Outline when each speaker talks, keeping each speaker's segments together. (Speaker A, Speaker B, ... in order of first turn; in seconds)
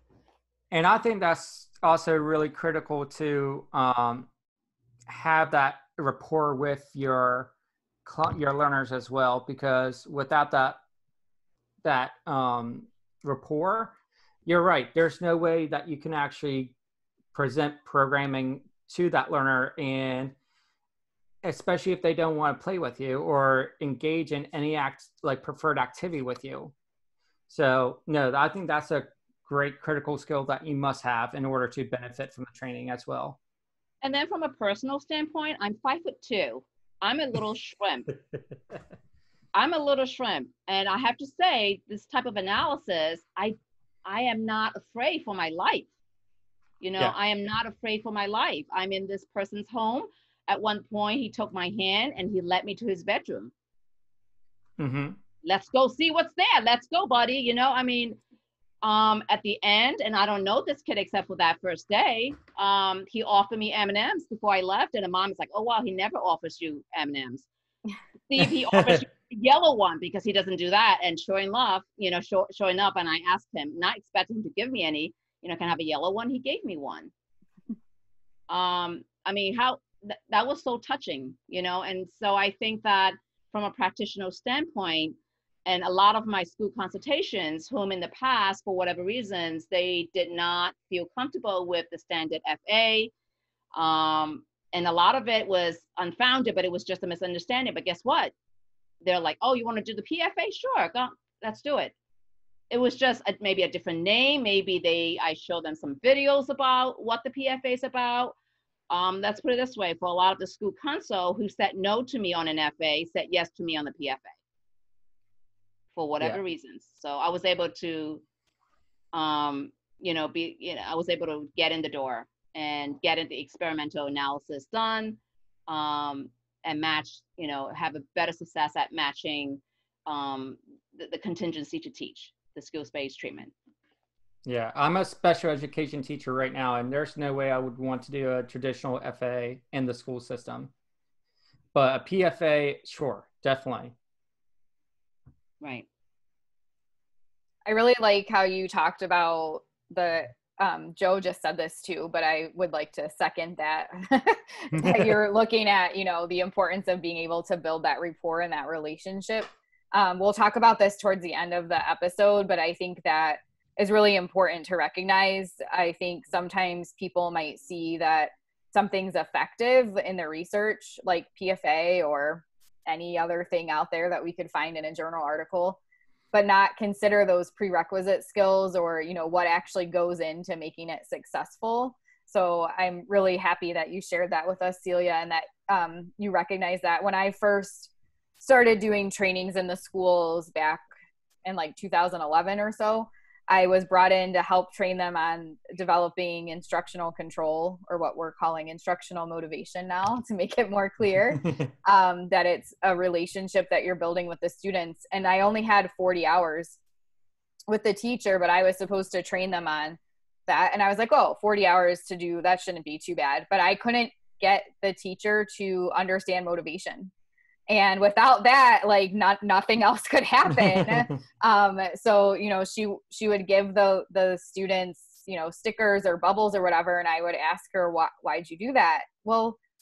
Speaker A: 0.7-4.3, 5.1-7.5, 8.0-10.8, 11.8-13.9, 14.4-16.7, 17.3-20.3, 21.4-26.7, 27.5-33.4, 54.8-55.2, 68.4-69.0, 134.4-140.7, 141.7-143.9, 154.7-155.2, 220.6-221.0
Speaker B: 34.0-38.1, 39.5-45.9, 46.8-53.5, 55.4-58.2, 58.8-67.5, 68.3-77.1, 78.5-85.1, 85.7-93.1, 93.7-98.3, 99.0-101.9, 102.7-108.3, 108.9-114.3, 116.0-118.2, 119.1-133.5, 145.6-145.8
Speaker C: 147.7-175.8, 176.3-190.8, 191.4-206.8, 207.7-217.1, 217.7-229.6